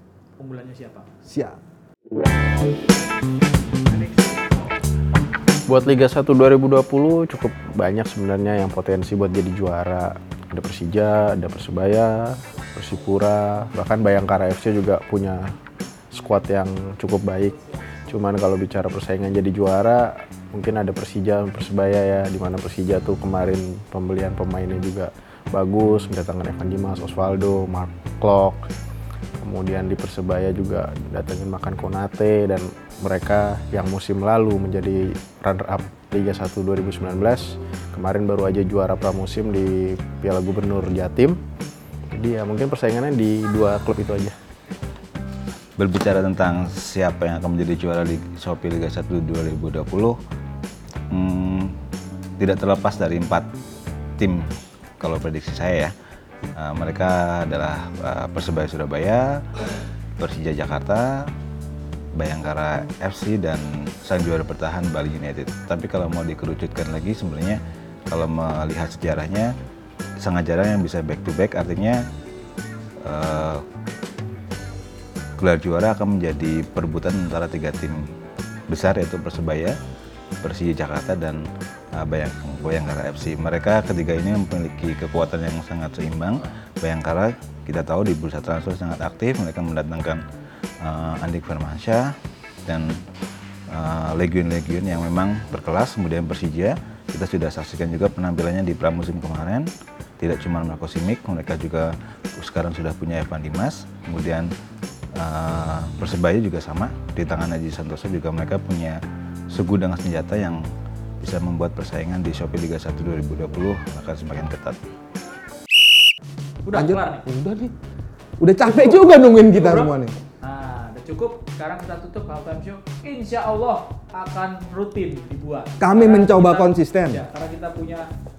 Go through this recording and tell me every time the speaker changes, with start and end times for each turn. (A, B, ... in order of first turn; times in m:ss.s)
0:00.4-0:01.1 A
0:01.2-0:01.6 B
0:03.9-0:04.4 A
0:05.7-0:15.5 C
0:16.1-0:28.6 C
0:29.4-0:41.4 C
0:42.1-0:44.3 C
0:45.8-0:50.2 D
0:51.1-0:51.7 D
0:52.4-0:53.5 D
0:54.2-0:54.5 D
0:55.0-0:55.9 D
0:56.6-0:59.5 D
1:00.2-1:01.3 D
1:02.1-1:07.6 D
1:08.1-1:09.5 D
1:10.2-1:12.0 D
1:13.0-1:13.6 D
1:15.4-1:18.1 D
1:18.7-1:19.7 D
1:20.4-1:30.2 D
1:30.8-1:32.1 D
1:32.7-1:33.0 D
1:33.7-1:39.7 D
1:40.2-1:44.5 D
1:45.2-1:49.0 D
1:49.5-1:50.6 D
1:51.2-1:54.8 D
1:56.6-1:57.2 A
1:56.7-1:57.7 B
1:58.4-2:00.2 B
1:58.6-2:08.1 A
2:05.8-2:07.2 B